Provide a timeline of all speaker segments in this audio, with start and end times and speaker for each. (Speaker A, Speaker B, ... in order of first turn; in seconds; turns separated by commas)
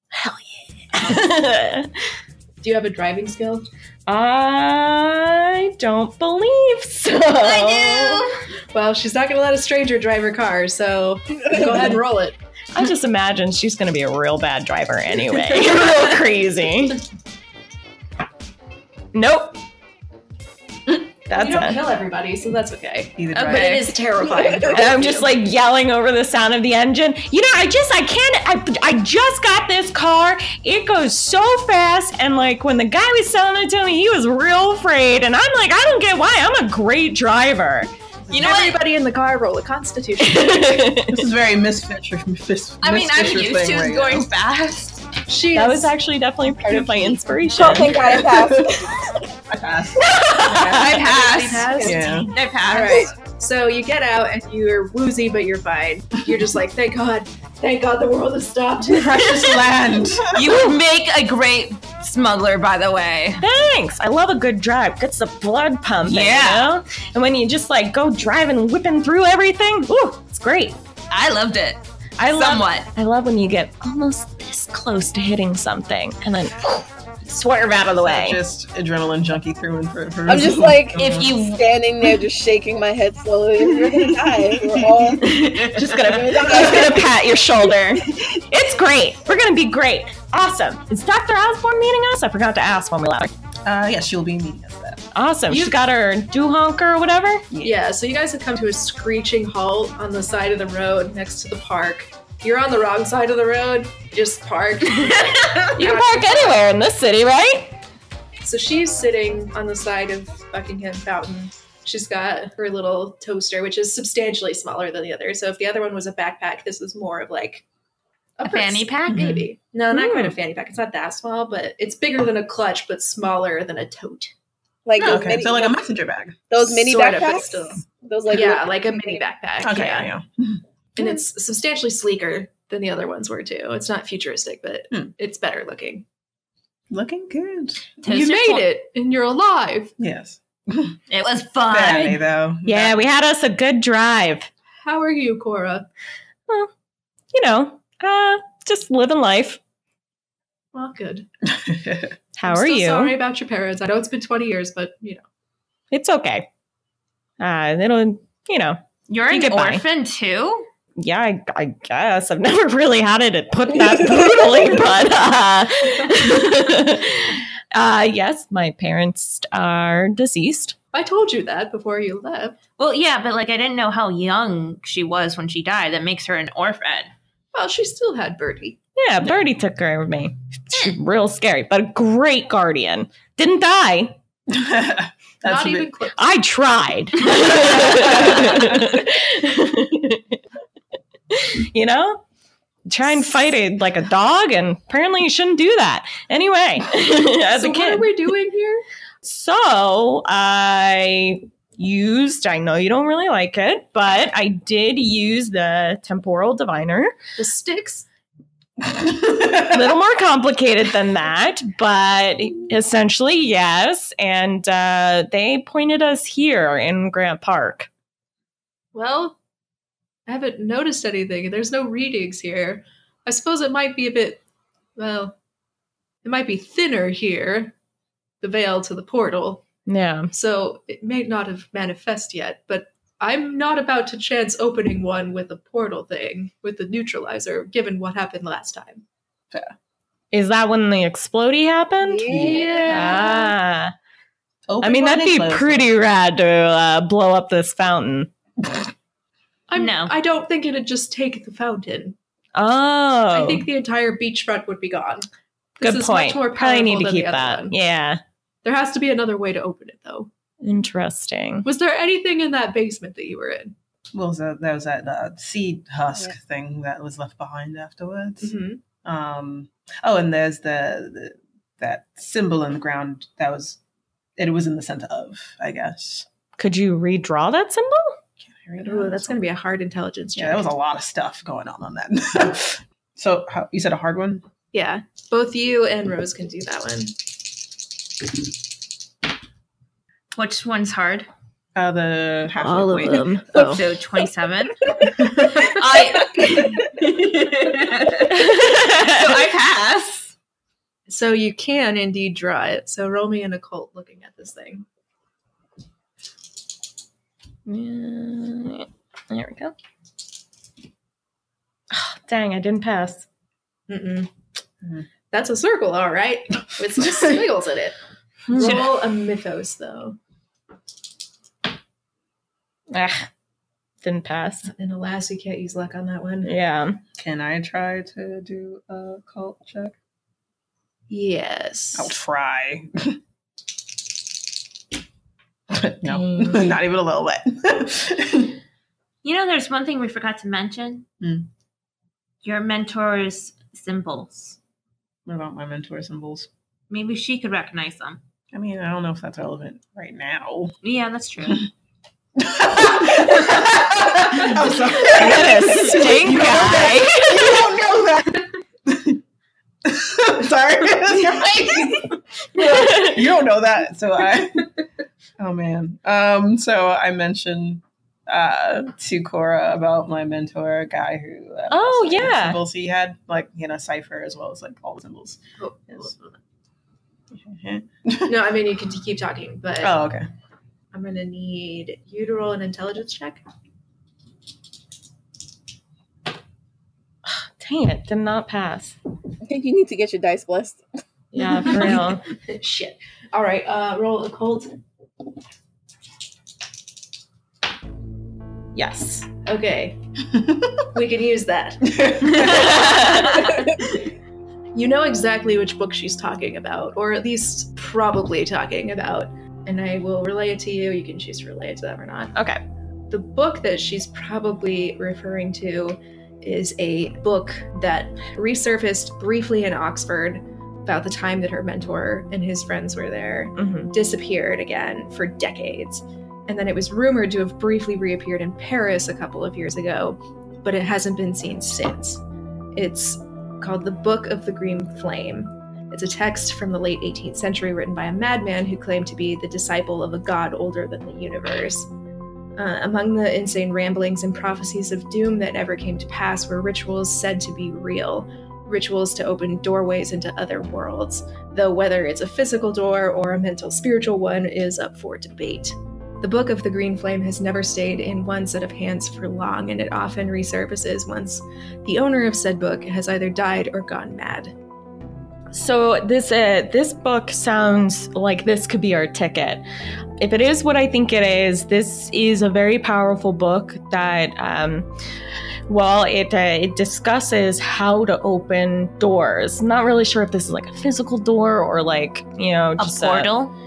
Speaker A: 0.1-1.9, Speaker B: 2.6-3.6, Speaker A: 4.1-8.4, Speaker C: 7.4-8.4, Speaker B: 8.7-12.4, Speaker A: 12.8-17.0, Speaker A: 19.1-19.6, Speaker A: 21.3-21.8, Speaker B: 21.3-25.3, Speaker D: 23.2-23.9, Speaker C: 23.3-24.0, Speaker A: 24.7-37.9, Speaker C: 38.3-38.8, Speaker B: 38.3-40.9, Speaker A: 40.2-41.2, Speaker D: 41.1-44.3, Speaker C: 42.8-45.1, Speaker B: 45.3-46.0, Speaker A: 45.5-48.1, Speaker B: 46.6-47.2, Speaker E: 47.5-49.1, Speaker D: 47.6-51.0, Speaker C: 50.0-53.1, Speaker B: 50.5-59.4, Speaker D: 51.8-52.3, Speaker D: 58.9-60.6, Speaker C: 60.3-63.4, Speaker A: 63.4-70.8, Speaker C: 66.0-66.7, Speaker C: 71.1-72.9, Speaker A: 72.2-78.4, Speaker D: 78.0-81.4, Speaker E: 80.3-87.2, Speaker C: 81.0-81.6, Speaker A: 85.3-93.3, Speaker C: 85.4-85.8, Speaker D: 93.6-95.1, Speaker A: 95.2-97.5, Speaker B: 97.6-106.6, Speaker A: 105.6-107.7, Speaker B: 108.4-117.6, Speaker B: 118.4-124.3, Speaker C: 118.5-119.4, Speaker D: 119.1-119.5, Speaker A: 119.9-120.3, Speaker E: 124.8-125.8, Speaker D: 125.0-126.5, Speaker E: 126.5-129.2, Speaker B: 126.6-130.1, Speaker D: 129.6-130.6, Speaker B: 131.0-136.1, Speaker D: 136.9-137.9, Speaker C: 138.0-138.7, Speaker B: 138.1-139.9, Speaker D: 140.0-141.0, Speaker C: 141.1-142.2, Speaker D: 141.7-143.0, Speaker A: 142.7-144.5, Speaker B: 144.8-145.9, Speaker A: 147.3-149.6, Speaker B: 150.7-151.3, Speaker D: 151.4-152.2, Speaker A: 152.4-153.2, Speaker B: 152.4-155.2, Speaker A: 155.9-156.5, Speaker A: 157.4-159.8, Speaker C: 159.1-160.7, Speaker A: 161.0-170.8, Speaker B: 170.9-172.6, Speaker C: 172.8-177.1, Speaker B: 177.5-178.8, Speaker A: 179.0-184.2, Speaker D: 184.5-185.9, Speaker B: 185.4-186.4, Speaker A: 186.2-190.4, Speaker D: 187.6-188.9, Speaker A: 191.3-192.2, Speaker A: 192.9-198.1, Speaker B: 197.5-198.8, Speaker A: 199.2-207.2, Speaker B: 207.4-208.1, Speaker D: 208.8-210.0, Speaker A: 209.7-217.9, Speaker B: 218.9-219.4, Speaker B: 220.3-224.4, Speaker B: 225.0-225.4, Speaker B: 226.2-227.7, Speaker B: 228.4-229.7, Speaker A: 229.9-230.3, Speaker B: 230.3-239.0, Speaker A: 240.3-243.9, Speaker E: 242.0-243.2, Speaker B: 242.3-243.6, Speaker D: 244.7-245.9, Speaker A: 244.8-248.3, Speaker B: 249.7-252.2, Speaker C: 249.8-250.1, Speaker A: 252.6-253.7, Speaker B: 253.3-255.3, Speaker B: 255.8-257.8, Speaker A: 255.8-258.2, Speaker B: 258.6-260.3, Speaker A: 260.6-261.7, Speaker B: 261.6-263.7, Speaker D: 264.1-273.8, Speaker B: 268.4-268.8, Speaker D: 274.4-276.3, Speaker A: 276.6-278.2, Speaker D: 278.4-279.4, Speaker B: 278.8-280.7, Speaker D: 280.4-284.4, Speaker B: 284.7-287.2, Speaker C: 290.3-291.3, Speaker D: 291.8-293.8, Speaker A: 292.6-293.8, Speaker C: 293.5-300.3, Speaker A: 298.3-299.4, Speaker B: 301.1-304.9, Speaker A: 307.7-309.7, Speaker A: 311.9-313.3, Speaker B: 313.9-314.3, Speaker B: 315.3-318.0, Speaker A: 318.5-318.8, Speaker B: 318.5-320.2, Speaker C: 318.5-318.9, Speaker A: 322.9-323.3, Speaker A: 324.0-324.7, Speaker B: 324.7-326.5, Speaker A: 326.4-327.0, Speaker D: 327.2-330.0, Speaker B: 331.1-332.1, Speaker D: 331.9-333.2, Speaker D: 335.7-338.6, Speaker A: 336.1-336.6, Speaker C: 339.2-341.1, Speaker D: 341.2-341.5, Speaker C: 342.4-344.6, Speaker D: 345.3-346.5, Speaker C: 346.9-348.2, Speaker D: 348.5-350.8, Speaker C: 350.8-351.7, Speaker D: 352.4-359.2, Speaker A: 355.0-357.6, Speaker C: 355.9-357.1, Speaker D: 359.8-364.7, Speaker A: 362.8-363.2, Speaker D: 365.4-376.1, Speaker A: 371.7-372.6, Speaker B: 375.6-376.4, Speaker D: 377.3-378.4, Speaker B: 378.3-380.0, Speaker D: 379.8-380.3, Speaker B: 380.9-383.4, Speaker A: 387.3-389.0, Speaker E: 389.4-390.8, Speaker A: 391.3-392.2, Speaker B: 391.7-394.7, Speaker A: 398.8-399.3, Speaker B: 399.4-400.0, Speaker D: 400.4-400.7, Speaker B: 400.9-402.0, Speaker D: 401.8-403.3, Speaker C: 402.5-403.6, Speaker B: 404.7-412.4, Speaker A: 412.4-412.6, Speaker B: 413.1-432.2, Speaker A: 423.6-423.9, Speaker B: 432.8-441.9, Speaker B: 442.6-464.5, Speaker A: 465.5-469.6, Speaker A: 470.2-474.9, Speaker A: 475.7-483.3, Speaker C: 482.8-483.5